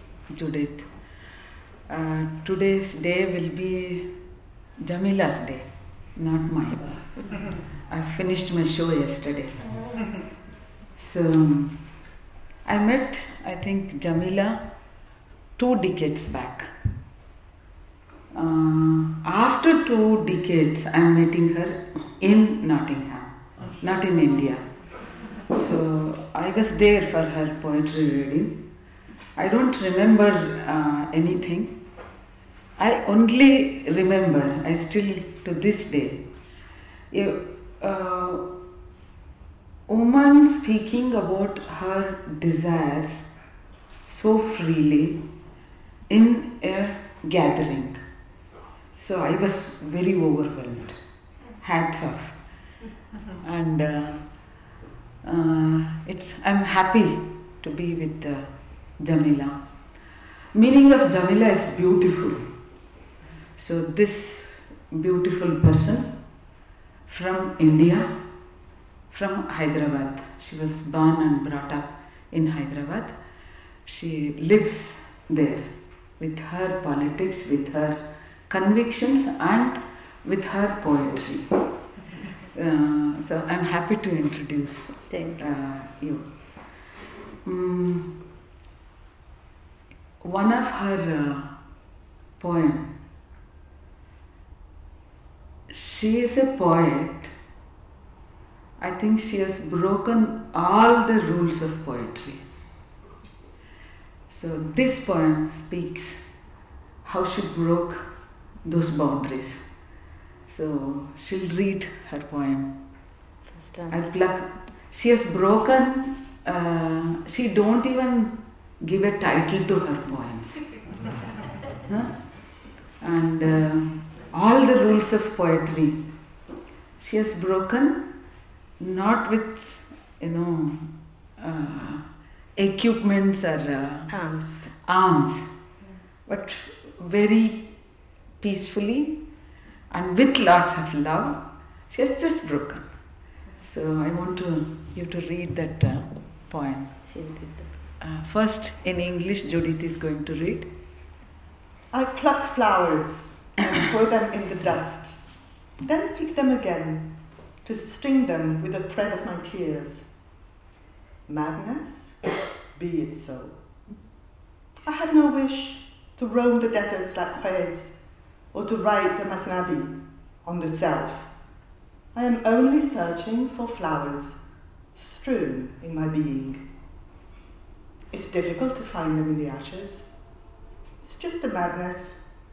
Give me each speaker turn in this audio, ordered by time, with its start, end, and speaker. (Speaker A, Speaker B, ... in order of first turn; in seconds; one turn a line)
Speaker A: 0.3-0.9
Speaker A: 1.9-4.2
Speaker A: 4.8-7.3
Speaker A: 7.9-9.9
Speaker A: 11.0-11.9
Speaker A: 12.7-14.6
Speaker A: 15.6-16.7
Speaker A: 18.3-24.6
Speaker A: 25.5-28.6
Speaker A: 29.4-31.8
Speaker A: 32.8-36.2
Speaker A: 37.1-38.5
Speaker A: 39.9-43.2
Speaker A: 44.0-45.2
Speaker A: 46.1-48.0
Speaker A: 49.0-51.0
Speaker A: 51.6-52.4
Speaker A: 53.4-54.3
Speaker A: 55.2-59.6
Speaker A: 60.5-62.5
Speaker A: 63.6-66.1
Speaker A: 67.1-68.1
Speaker A: 69.1-73.1
Speaker A: 73.9-81.7
Speaker A: 82.5-86.3
Speaker B: 85.1-85.5
Speaker A: 87.5-88.3
Speaker A: 90.2-91.6
Speaker A: 92.4-93.0
Speaker A: 95.7-97.3
Speaker A: 98.8-102.5
Speaker A: 104.3-106.2
Speaker A: 107.0-108.1
Speaker A: 108.6-109.6
Speaker A: 110.5-112.8
Speaker B: 113.5-114.1
Speaker A: 113.9-120.8
Speaker A: 121.8-126.1
Speaker A: 127.0-128.2
Speaker A: 128.8-134.1
Speaker B: 134.1-134.7
Speaker A: 134.7-135.5
Speaker A: 136.3-137.7
Speaker A: 138.4-139.2
Speaker A: 139.9-142.9
Speaker A: 143.6-147.0
Speaker B: 147.1-147.7
Speaker A: 148.0-150.7
Speaker C: 151.9-155.2
Speaker C: 155.8-157.1
Speaker C: 157.6-160.1
Speaker C: 161.3-162.2
Speaker C: 162.7-163.6
Speaker C: 164.8-167.9
Speaker C: 168.5-171.3
Speaker C: 172.1-174.4
Speaker C: 174.9-176.6
Speaker C: 178.1-180.1
Speaker C: 181.0-182.2